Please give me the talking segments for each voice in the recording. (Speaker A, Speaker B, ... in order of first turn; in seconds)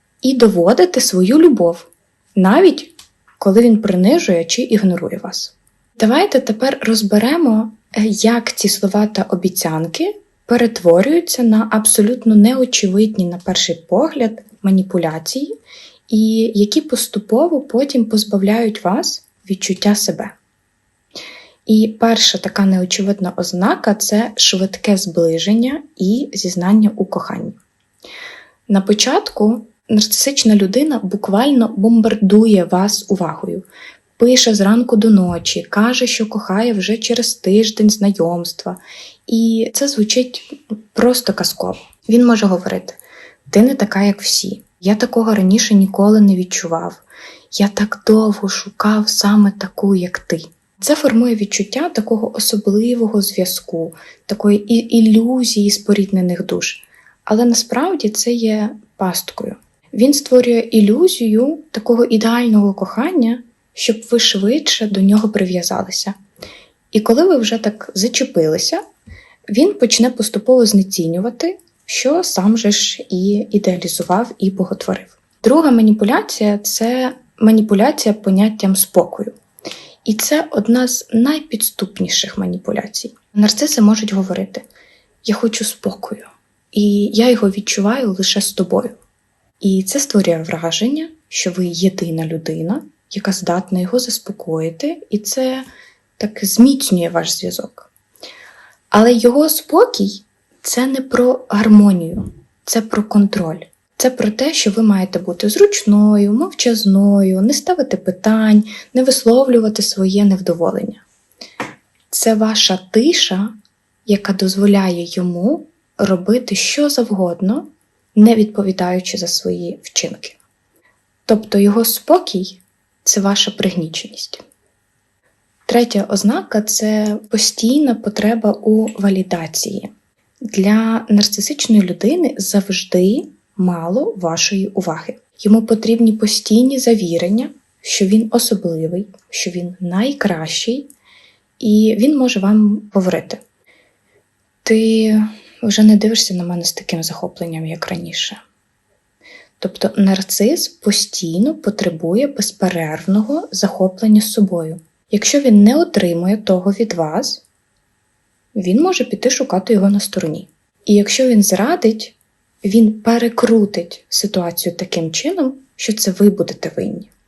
Speaker A: 0.2-15.5, 16.1-20.4, 21.7-27.6, 28.7-33.7, 34.2-66.2, 66.9-68.8, 69.5-79.4, 80.0-84.7, 85.2-89.0, 89.6-95.7, 96.2-97.9, 98.9-111.0, 112.1-113.5, 114.1-120.4, 121.3-124.4, 125.7-129.9, 130.4-140.9, 141.6-143.4, 144.6-148.4, 149.6-157.4, 158.6-167.1